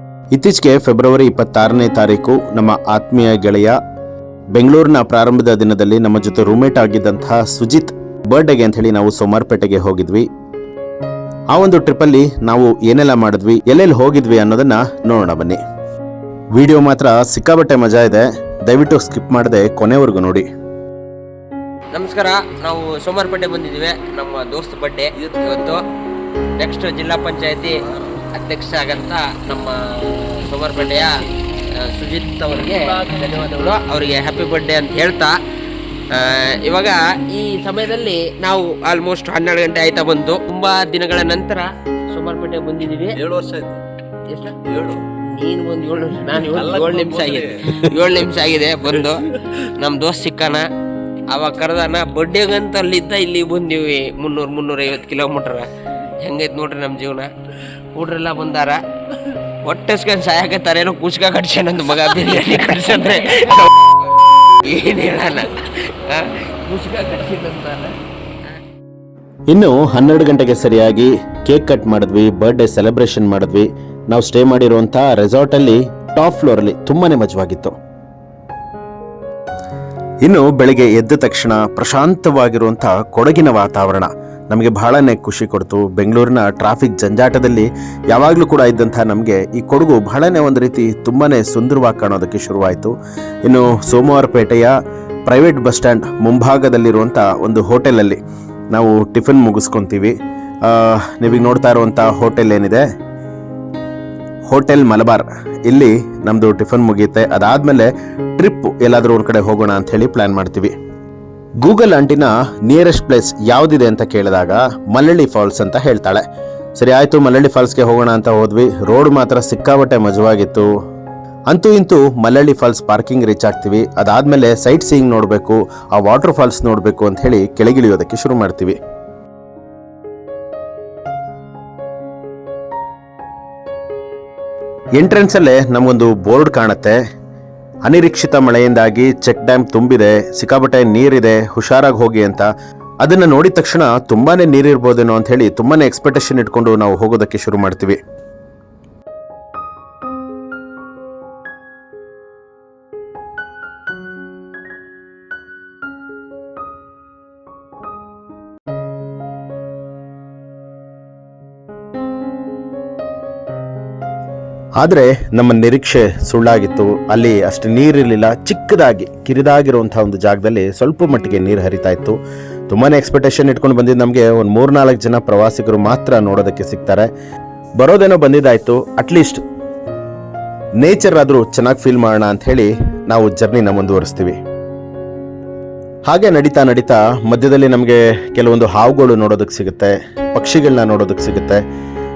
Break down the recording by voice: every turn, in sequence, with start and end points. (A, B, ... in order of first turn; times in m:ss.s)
0:00.3-0:03.8 A
0:04.6-0:10.3 A
0:11.5-0:15.6 A
0:16.6-0:20.4 A
0:21.9-0:25.8 B
0:26.6-0:27.8 B
0:28.4-0:35.4 B
0:36.1-0:43.2 B
0:43.2-0:43.8 C
0:44.3-0:44.6 B
0:44.6-0:45.0 C
0:45.3-0:49.2 B
0:46.5-0:47.9 C
0:49.7-0:50.7 B
0:51.3-0:55.7 B
0:56.2-0:57.3 B
0:58.0-0:58.8 B
0:59.6-1:03.8 B
1:04.6-1:05.6 B
1:06.1-1:07.9 B
1:09.5-1:17.7 A
1:20.2-1:32.9 A
1:33.4-1:34.7 A
1:35.3-1:38.2 A
1:38.7-1:40.1 A
1:40.6-1:42.8 A
1:44.5-1:50.7 A
1:51.6-1:56.2 A
1:56.8-2:00.7 A
2:01.5-2:08.8 A
2:15.0-2:17.0 A
2:17.8-2:22.5 A
2:23.0-2:28.0 A
2:44.8-2:52.2 A
2:52.7-2:57.1 A
2:57.8-2:59.4 A
3:00.8-3:04.4 A
3:06.1-3:11.6 A